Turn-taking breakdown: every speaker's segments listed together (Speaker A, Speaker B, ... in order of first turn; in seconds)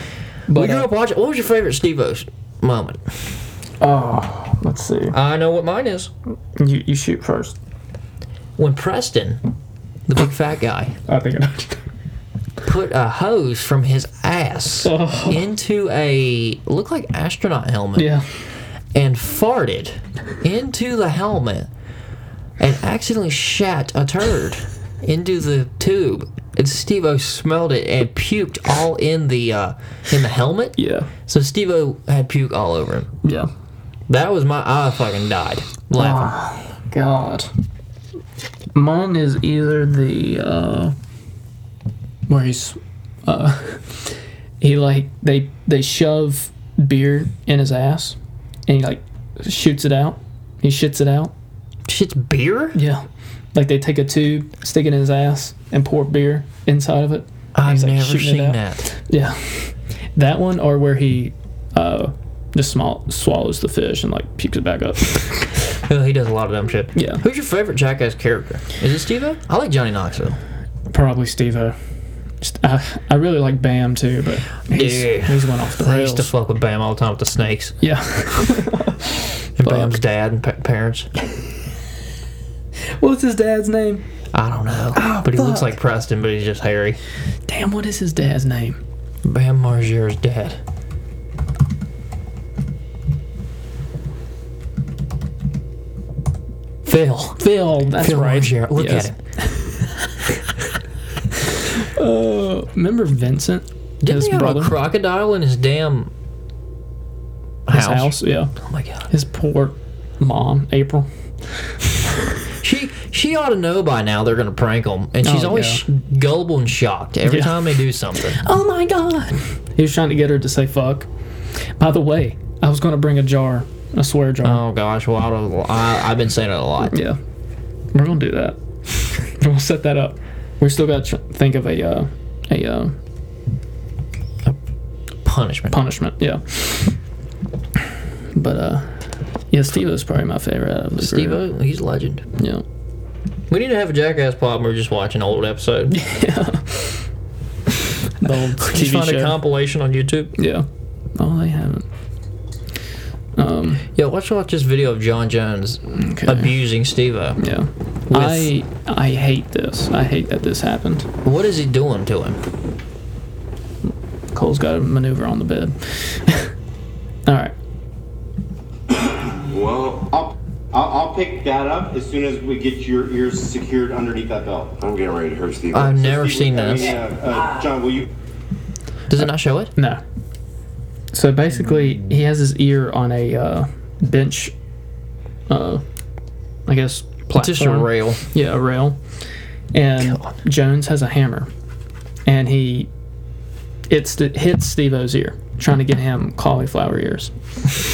Speaker A: 0.5-0.9, 3.8-5.2, 6.6-7.5, 11.1-11.8, 14.8-15.4, 17.9-18.2, 30.8-31.1, 33.2-33.5, 36.0-37.5, 38.7-40.9, 42.3-51.3, 52.7-65.5, 66.9-67.2, 70.9-71.8, 72.4-76.3, 77.8-79.9, 82.8-84.0, 85.0-85.7, 87.5-88.8, 97.4-99.9, 101.7-104.7, 107.7-108.5, 109.1-111.1, 115.2-115.8, 117.2-117.6, 118.3-121.1, 121.8-124.6, 126.8-127.2, 127.9-128.6, 129.2-132.9, 135.7-136.9, 138.3-141.4, 142.4-142.6, 145.9-147.0, 148.2-149.4, 150.4-151.8, 153.3-153.8, 155.9-156.5, 157.4-161.1, 164.3-166.5, 167.2-167.5, 179.8-180.0, 181.1-184.5, 185.5-185.8, 186.7-189.0, 189.7-191.5, 192.2-192.9, 193.9-197.3
Speaker B: 0.5-3.1, 5.1-6.1, 8.6-9.4, 10.1-10.9, 12.6-18.1, 18.9-21.7, 22.6-33.1, 34.1-36.3, 51.9-52.8, 57.5-58.9, 65.8-70.4, 74.7-77.8, 79.6-81.1, 84.3-87.0, 89.2-90.6, 96.8-99.1, 104.0-106.1, 107.7-109.1, 112.6-118.4, 124.4-127.0, 135.2-135.8, 141.0-142.2, 143.5-145.9, 148.6-150.3, 153.9-157.4, 158.1-158.5, 161.2-162.4, 175.7-176.9, 179.1-179.7, 187.3-188.2
Speaker C: 169.2-170.1, 174.8-176.3
Speaker D: 170.1-174.8, 176.1-178.1